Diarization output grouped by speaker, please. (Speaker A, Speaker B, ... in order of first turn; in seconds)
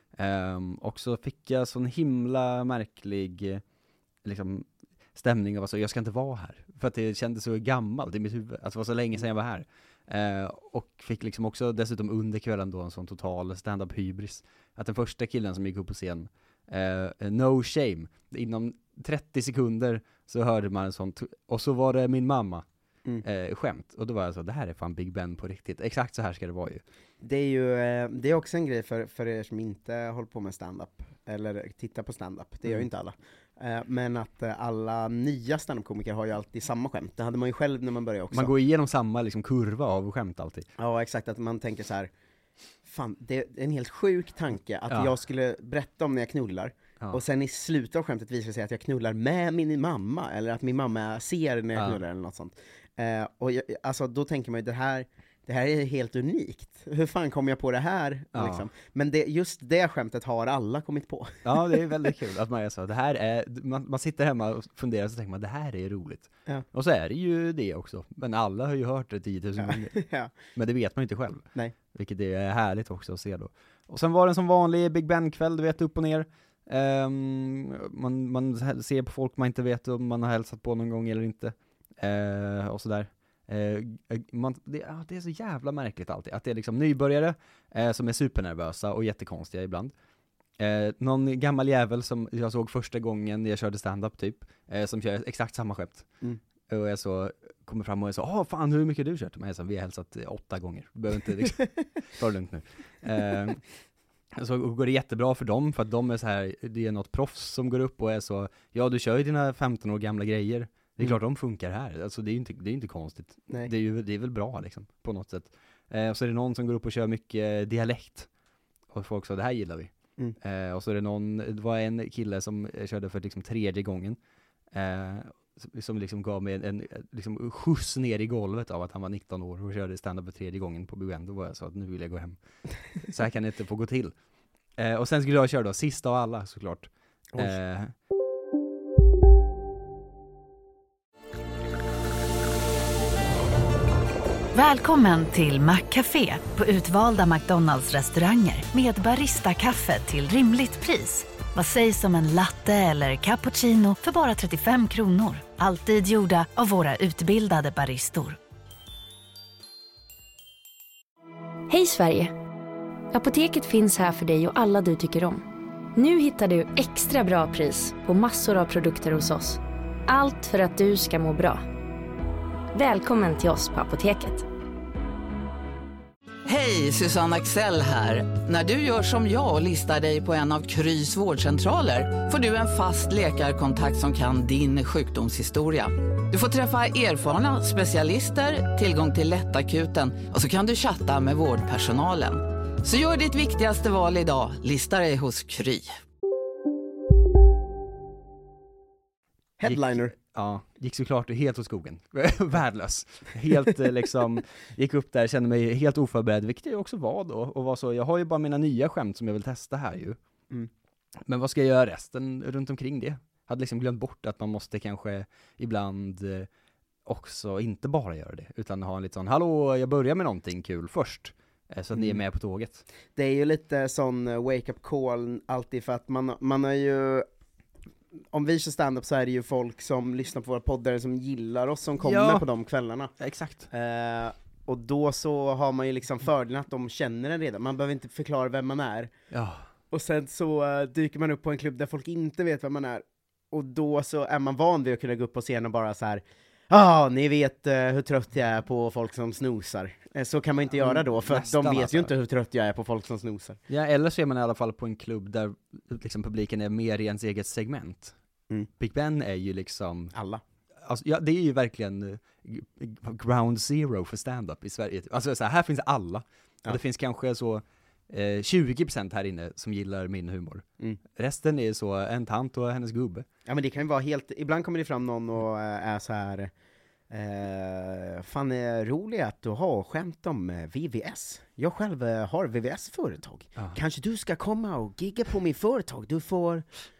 Speaker A: 0.1-3.6, 4.2-22.6, 23.2-26.8, 38.3-40.7, 51.7-52.0, 58.3-58.7, 61.4-70.0, 70.5-89.9, 90.6-96.1, 96.7-103.6, 104.3-118.3, 118.9-124.2, 124.7-132.4, 133.0-134.1, 134.8-137.9, 199.7-210.2, 211.2-216.5, 217.0-222.8, 232.0-232.4, 233.2-233.7, 239.3-239.6, 250.8-252.1, 253.7-258.1, 258.8-260.1, 260.8-270.6, 271.1-273.2
Speaker B: 27.2-38.5, 40.8-42.1, 42.8-61.9, 69.6-70.3, 199.6-200.1, 223.2-227.3, 228.3-233.1, 233.7-239.1, 239.9-253.6, 260.1-260.4, 273.4-276.5, 277.1-286.7
Speaker C: 144.5-158.4
Speaker D: 161.7-162.3, 163.1-165.4, 165.9-171.6, 172.7-174.4
Speaker E: 176.4-195.9